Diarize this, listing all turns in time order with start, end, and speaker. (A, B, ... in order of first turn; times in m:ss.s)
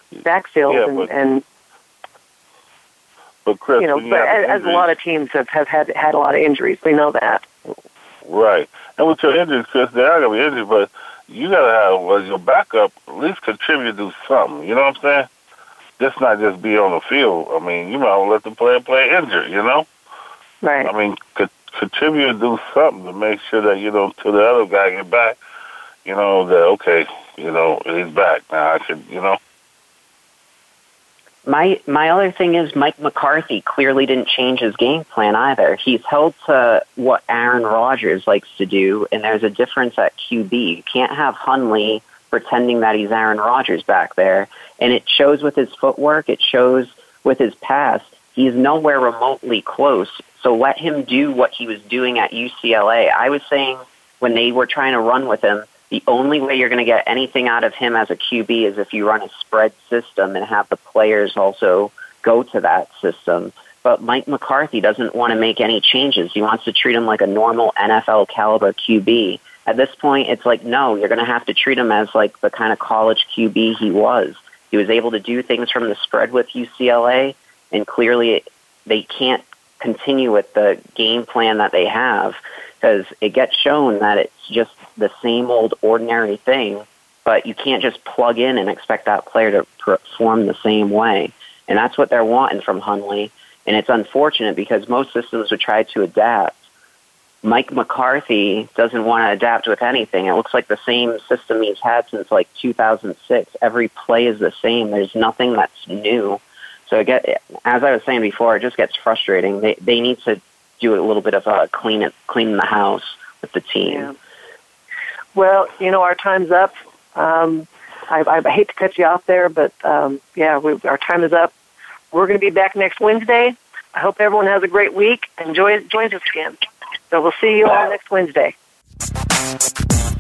0:00.2-0:01.4 A
0:00.7-0:01.1 B
0:03.5-0:04.9 B
0:03.8-0:07.4 A
0:08.2-0:15.3 B
0:16.0-0:19.9 B
0:20.6-0:20.9 A
0:20.8-0:25.4 B
0:26.0-0:29.4 B
0:31.4-1:36.6 C
1:37.4-1:54.1 C
1:53.9-1:54.2 A
1:55.4-2:01.5 A
2:02.1-2:06.6 A
2:07.1-2:08.6 A